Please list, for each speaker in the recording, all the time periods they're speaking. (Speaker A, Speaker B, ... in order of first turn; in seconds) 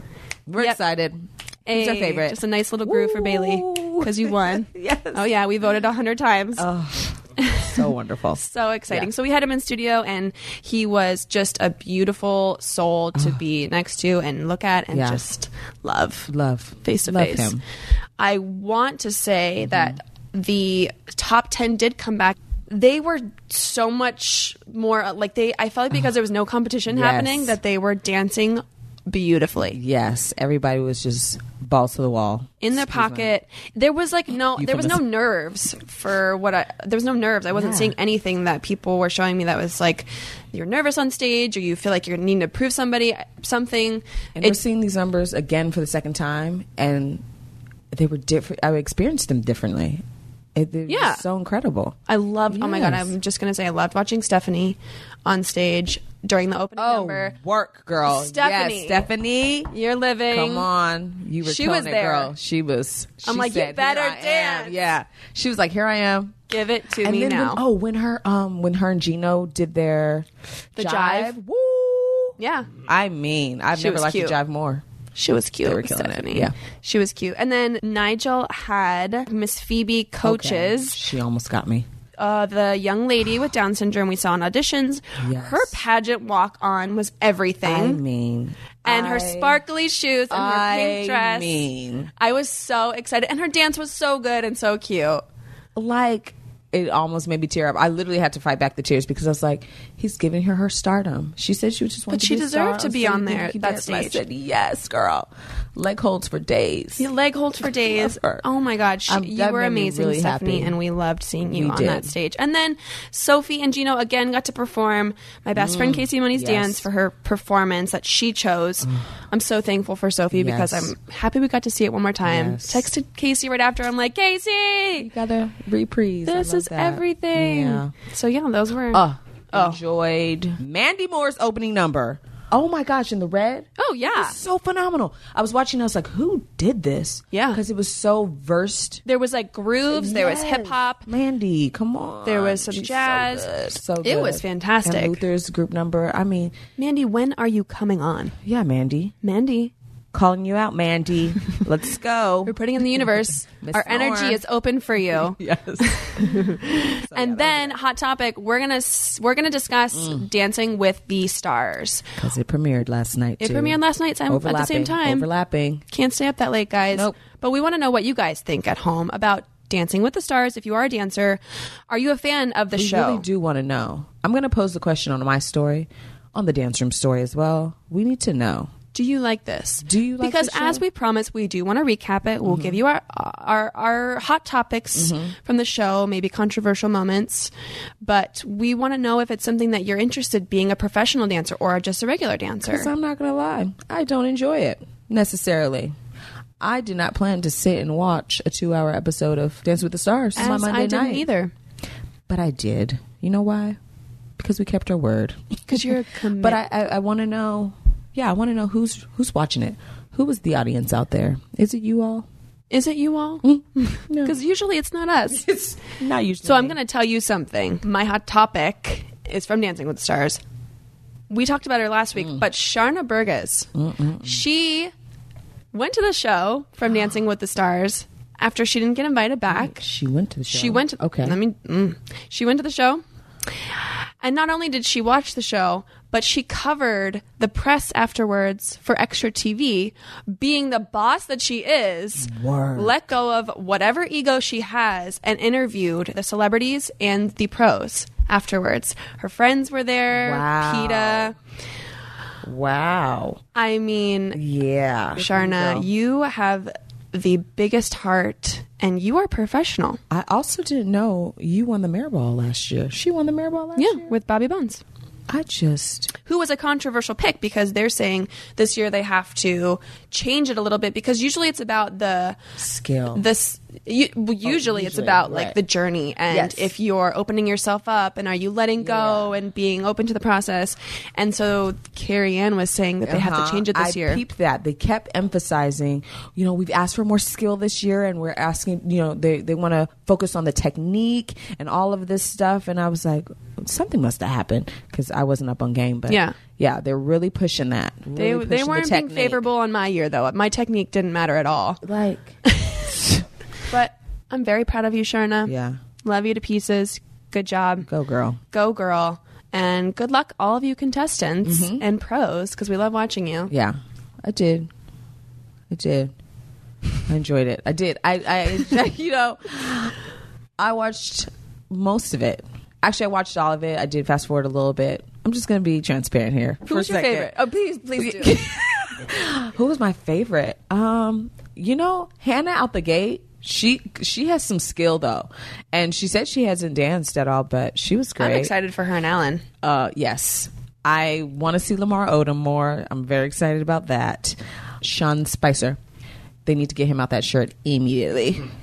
Speaker A: 0.5-5.3, 6.6-9.1, 13.2-13.4, 14.9-15.2, 16.3-17.6, 19.6-20.0, 26.9-27.6, 29.7-33.3, 34.5-35.0, 37.5-38.0, 44.4-47.2, 47.9-50.0, 50.5-52.0, 52.5-53.2, 56.8-59.7, 60.3-66.4, 67.0-74.8, 75.6-76.5, 80.2-81.9, 85.2-85.8, 87.6-89.6, 90.3-92.1, 95.8-107.1, 107.8-108.5, 109.1-110.8, 111.5-112.2, 115.5-116.9, 118.8-119.1, 120.3-120.9, 122.2-122.9, 125.0-127.9, 128.9-139.0, 139.9-146.6, 148.4-149.1, 150.1-154.4, 154.9-157.8, 159.9-160.2, 162.2-165.8, 172.7-178.7, 179.8-180.8, 182.4-182.8, 184.9-185.3, 192.6-195.9, 196.6-201.3, 202.3-203.8, 204.4-212.3, 213.4-214.4, 215.3-216.8, 222.2-222.4, 223.7-224.4, 229.5-231.4, 242.2-242.9, 250.1-251.3, 252.4-253.4, 254.3-255.9, 260.1-264.1, 265.3-266.1, 272.6-273.2, 274.4-275.6, 276.3-276.7, 278.8-279.4, 283.0-299.5, 301.8-302.4, 302.9-303.2, 305.5-305.8, 307.9-308.4, 311.4-311.8, 313.5-314.7, 315.7-316.1, 317.1-319.9, 320.6-327.4, 327.9-338.5, 339.6-345.8, 346.4-348.5
Speaker B: 1.7-6.7, 7.4-7.8, 8.4-16.3, 16.8-17.6, 18.2-29.8, 32.6-44.6, 50.9-51.2, 52.1-57.4, 58.0-59.1, 59.7-60.7, 61.4-62.3, 63.2-64.8, 66.5-67.6, 70.8-71.4, 72.4-72.7, 73.7-74.4, 75.2-81.0, 82.2-88.0, 88.8-91.7, 92.2-95.2, 102.1-104.2, 107.0-125.1, 126.3-129.8, 133.8-134.4, 137.3-137.6, 139.1-141.1, 142.2-145.2, 146.8-148.3, 149.2-149.7, 152.5-162.1, 163.4-165.3, 165.9-173.3, 178.9-187.5, 188.0-192.9, 200.4-201.5, 205.7-206.6, 212.7-215.5, 216.4-220.4, 221.3-223.7, 224.2-224.9, 225.7-229.8, 230.5-233.0, 233.8-251.3, 253.6-254.4, 255.2-260.0, 263.8-264.8, 266.2-272.4, 273.1-284.2, 296.1-296.4, 298.1-301.8, 302.4-302.9, 303.7-307.9, 308.5-313.5, 326.6-328.4, 338.2-339.4